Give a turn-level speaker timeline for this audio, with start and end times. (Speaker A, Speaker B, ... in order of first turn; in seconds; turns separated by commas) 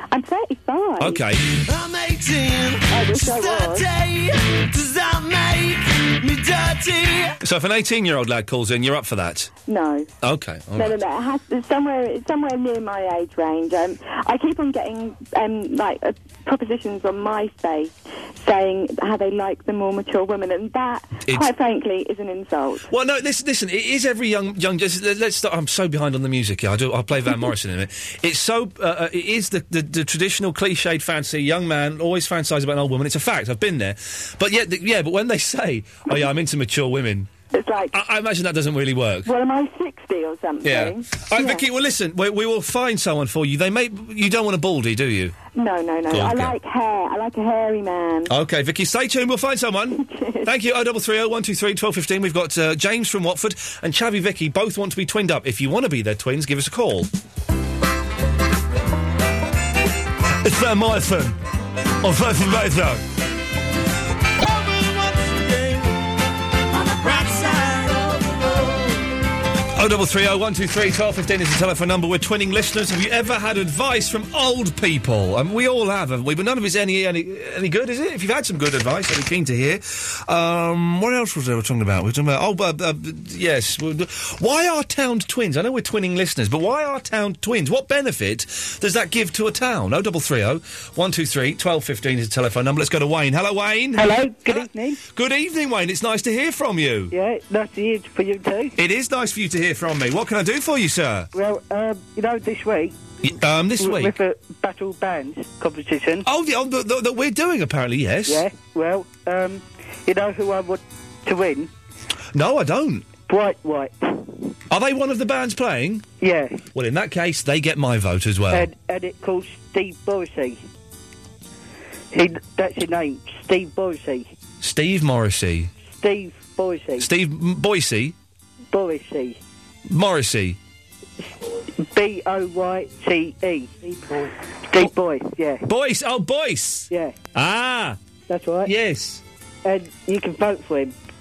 Speaker A: 0.1-1.2, Speaker B: 1.0-1.5, Speaker C: 1.5-7.4, Speaker A: 2.9-3.9, Speaker B: 7.4-9.5, Speaker A: 9.7-10.1, Speaker B: 10.2-11.0, Speaker A: 10.7-22.9, Speaker B: 21.2-21.5, Speaker B: 22.9-37.3, Speaker A: 37.5-38.0, Speaker B: 37.9-39.3, Speaker A: 39.2-41.6, Speaker B: 40.6-45.4, Speaker A: 45.5-48.3, Speaker B: 46.1-46.6, Speaker B: 48.3-57.1, Speaker A: 49.9-50.5, Speaker B: 60.4-61.4, Speaker B: 62.0-63.0, Speaker B: 65.2-65.8, Speaker C: 67.2-68.6, Speaker B: 69.7-97.1, Speaker D: 94.0-95.0, Speaker D: 97.1-98.7, Speaker B: 98.8-101.3, Speaker D: 101.3-103.0, Speaker B: 103.2-104.1, Speaker D: 103.8-106.2, Speaker B: 106.2-108.4, Speaker D: 108.3-111.7, Speaker B: 112.3-113.1, Speaker D: 113.3-114.3, Speaker B: 114.7-116.1, Speaker D: 116.2-116.6, Speaker B: 116.7-118.7, Speaker D: 118.5-120.6, Speaker D: 122.1-124.3, Speaker B: 124.6-125.7, Speaker D: 125.9-127.1, Speaker B: 127.0-128.1, Speaker D: 128.7-129.4, Speaker B: 129.9-130.6, Speaker D: 131.8-134.0, Speaker D: 134.7-135.7, Speaker B: 135.6-138.0, Speaker D: 136.9-137.2, Speaker D: 138.3-138.7, Speaker B: 138.7-139.2, Speaker D: 139.6-140.9